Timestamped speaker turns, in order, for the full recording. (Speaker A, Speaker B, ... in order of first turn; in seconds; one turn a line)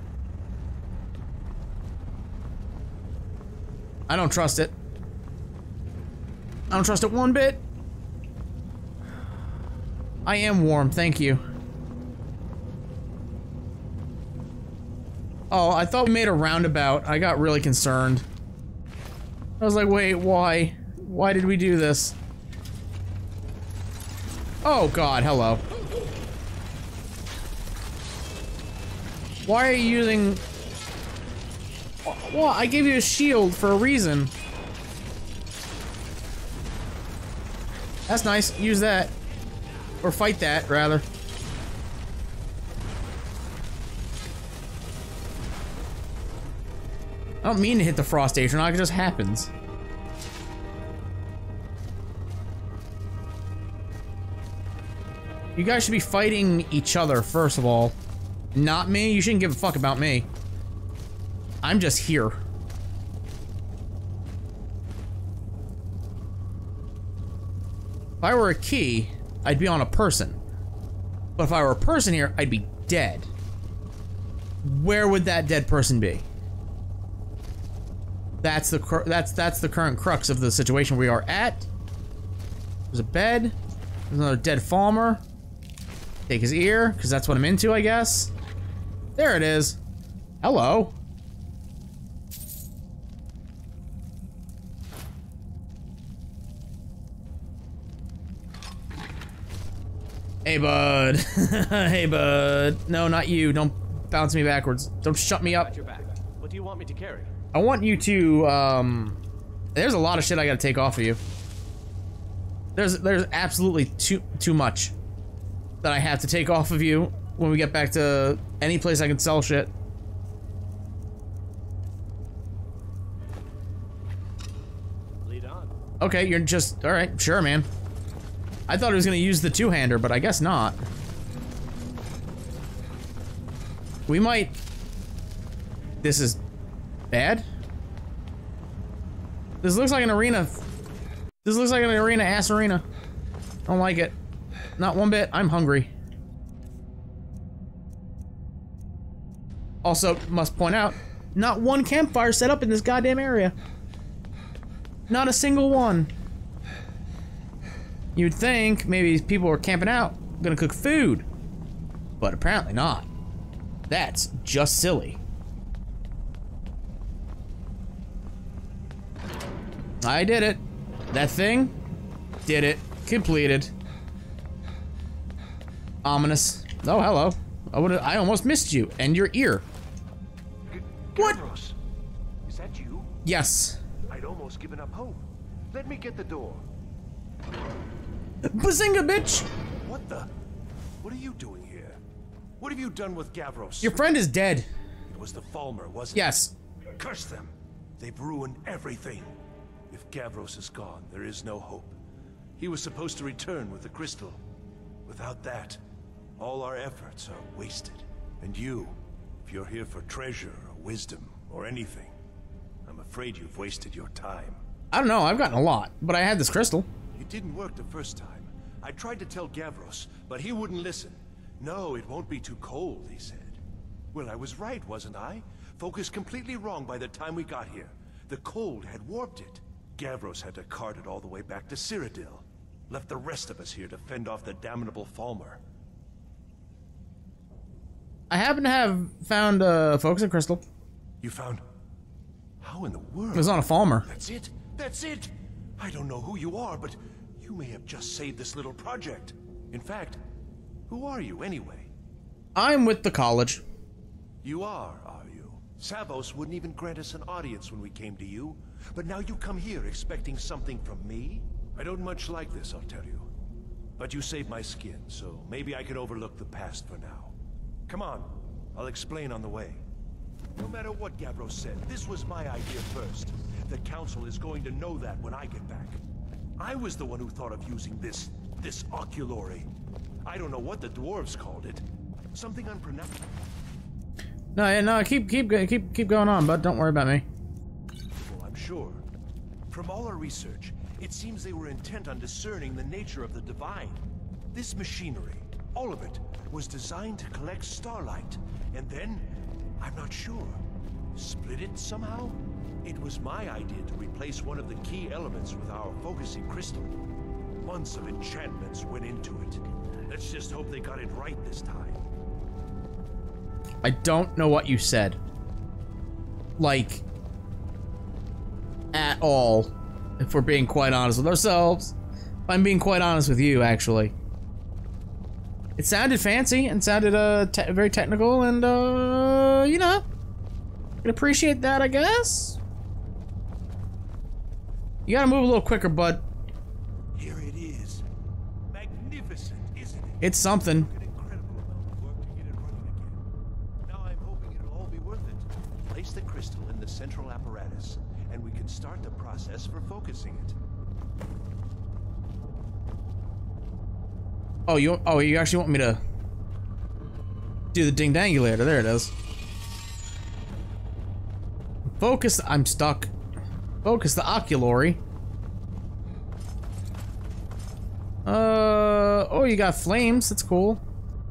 Speaker A: 4.1-4.7
Speaker A: 6.7-7.6
Speaker A: 10.2-11.4
Speaker A: 15.5-18.2
Speaker A: 19.6-22.1
Speaker A: 24.6-25.6
Speaker A: 29.4-30.4
Speaker A: 32.0-34.3
Speaker A: 38.1-39.1
Speaker A: 40.0-41.0
Speaker A: 47.4-49.5
Speaker A: 55.6-58.0
Speaker A: 58.5-60.3
Speaker A: 61.6-62.4
Speaker A: 68.2-70.4
Speaker A: 71.4-73.3
Speaker A: 74.6-76.2
Speaker A: 78.4-81.7
Speaker A: 82.9-83.5
Speaker A: 84.1-85.2
Speaker A: 86.3-88.3
Speaker A: 89.2-89.8
Speaker A: 90.4-91.0
Speaker A: 100.5-105.7
Speaker B: 105.5-107.3
Speaker A: 107.5-109.2
Speaker A: 109.8-111.2
Speaker A: 112.8-114.9
Speaker A: 115.8-119.7
Speaker B: 125.2-125.7
Speaker A: 126.0-127.7
Speaker A: 128.7-130.8
Speaker A: 134.1-134.6
Speaker A: 136.0-136.4
Speaker A: 137.1-137.5
Speaker A: 139.6-140.6
Speaker A: 141.4-142.8
Speaker A: 143.7-144.2
Speaker A: 144.8-145.9
Speaker A: 149.8-153.6
Speaker A: 155.1-156.1
Speaker A: 158.2-161.2
Speaker A: 162.2-163.1
Speaker A: 163.9-165.2
Speaker A: 170.0-171.8
Speaker A: 172.5-173.7
Speaker A: 176.0-179.6
Speaker C: 180.7-181.8
Speaker C: 182.4-183.1
Speaker A: 183.2-183.8
Speaker C: 184.1-186.6
Speaker A: 188.4-189.5
Speaker C: 189.7-190.3
Speaker C: 191.0-192.0
Speaker C: 192.6-194.0
Speaker A: 193.8-194.7
Speaker C: 195.1-196.4
Speaker A: 196.1-196.5
Speaker C: 197.0-199.3
Speaker C: 199.9-202.0
Speaker C: 202.6-204.4
Speaker C: 205.1-205.8
Speaker C: 206.4-212.1
Speaker C: 212.9-214.6
Speaker A: 214.9-216.9
Speaker C: 217.2-223.6
Speaker C: 224.1-235.6
Speaker A: 238.3-240.6
Speaker C: 241.2-241.6
Speaker C: 242.6-250.2
Speaker A: 243.3-244.1
Speaker C: 250.9-251.9
Speaker A: 252.6-253.6
Speaker C: 254.4-263.3
Speaker C: 264.0-267.3
Speaker C: 267.9-269.8
Speaker C: 270.6-276.0
Speaker C: 276.6-279.7
Speaker C: 280.2-283.3
Speaker A: 284.6-287.2
Speaker C: 288.2-289.0
Speaker C: 289.7-294.0
Speaker C: 294.5-300.6
Speaker C: 301.1-306.9
Speaker C: 307.6-312.0
Speaker A: 313.8-315.2
Speaker A: 316.6-317.0
Speaker A: 318.9-321.9
Speaker A: 322.5-324.1
Speaker A: 325.8-330.0
Speaker A: 331.0-332.6
Speaker A: 335.1-336.2
Speaker C: 337.2-338.1
Speaker C: 338.7-343.2
Speaker A: 340.2-340.9
Speaker C: 343.8-350.6
Speaker A: 354.7-356.0
Speaker A: 357.7-359.1
Speaker A: 362.0-363.1
Speaker A: 363.8-365.0
Speaker A: 368.3-370.8